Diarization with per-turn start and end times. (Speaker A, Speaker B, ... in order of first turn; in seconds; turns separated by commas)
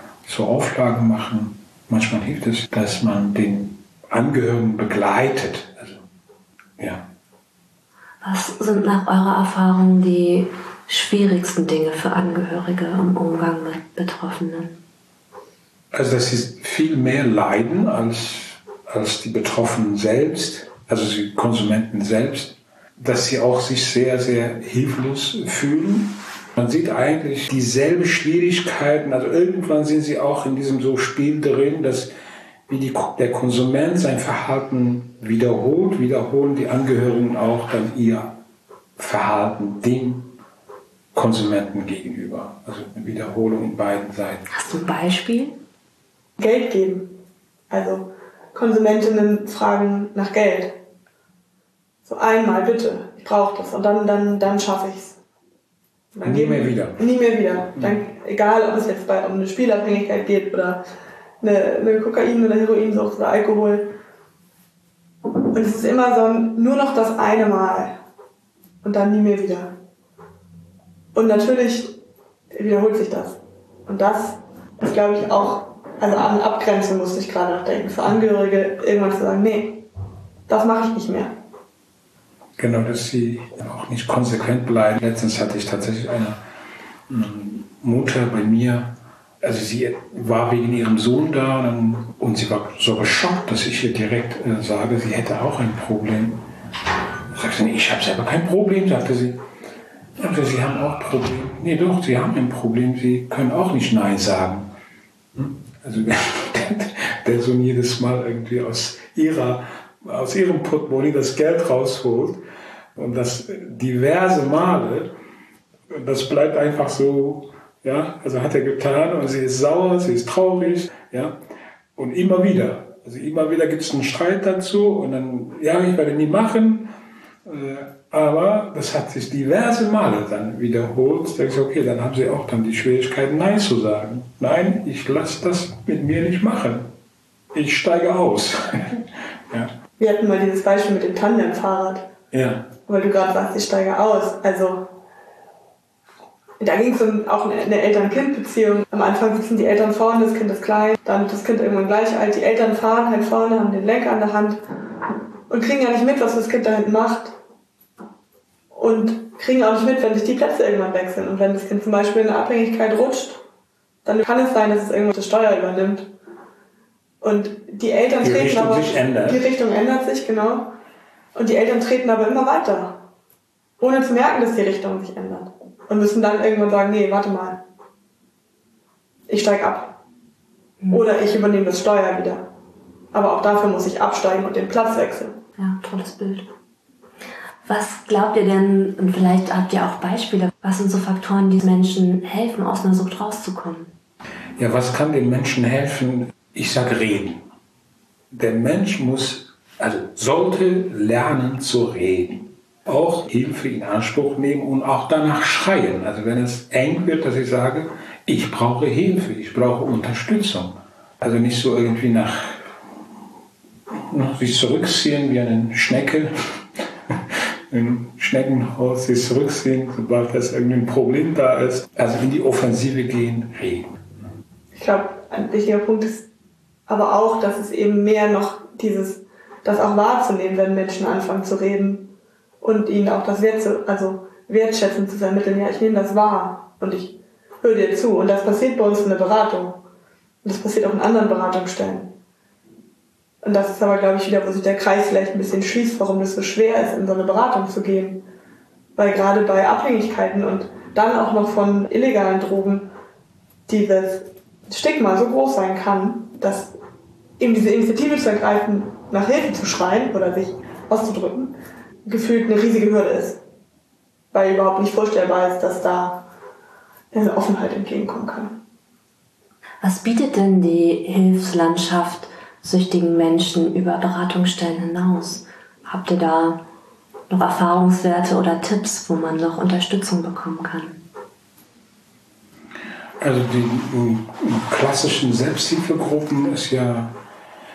Speaker A: 0.2-6.0, Speaker A: 6.8-7.0, Speaker B: 8.2-14.8, Speaker A: 15.9-32.1, Speaker A: 32.7-38.4, Speaker A: 39.0-40.3, Speaker A: 41.1-44.4, Speaker B: 44.5-45.6, Speaker C: 46.4-47.1, Speaker C: 47.7-50.8, Speaker C: 52.0-55.2, Speaker C: 56.1-60.8, Speaker A: 56.2-57.0, Speaker C: 61.4-63.9, Speaker C: 65.5-67.9, Speaker C: 68.8-69.7, Speaker C: 71.1-72.0, Speaker C: 72.5-79.8, Speaker C: 80.5-81.3, Speaker A: 82.6-86.4, Speaker A: 87.1-96.5, Speaker A: 97.3-99.4, Speaker A: 100.2-104.7, Speaker A: 105.3-112.4, Speaker A: 112.9-115.1, Speaker A: 115.9-121.4, Speaker A: 122.0-126.9, Speaker A: 127.4-136.9, Speaker A: 137.5-139.7, Speaker C: 140.0-142.1, Speaker A: 142.3-142.7, Speaker C: 142.9-144.9, Speaker C: 146.6-154.6, Speaker C: 155.5-157.3, Speaker C: 158.7-163.4, Speaker C: 164.0-166.1, Speaker C: 167.2-170.7, Speaker A: 168.2-169.4, Speaker C: 171.3-173.0, Speaker C: 173.8-177.6, Speaker C: 179.3-180.0, Speaker C: 180.9-182.5, Speaker C: 183.1-185.4, Speaker B: 185.6-186.5, Speaker B: 187.6-193.9, Speaker A: 194.6-197.4, Speaker A: 198.3-212.6, Speaker A: 213.9-224.0, Speaker C: 224.7-226.3, Speaker C: 226.9-239.8, Speaker C: 240.4-242.1, Speaker C: 243.4-248.2, Speaker C: 248.9-252.9, Speaker C: 253.7-256.7, Speaker C: 257.4-263.4, Speaker C: 264.3-266.2, Speaker C: 267.1-268.5, Speaker B: 269.8-276.6, Speaker B: 277.3-281.0, Speaker A: 283.2-287.1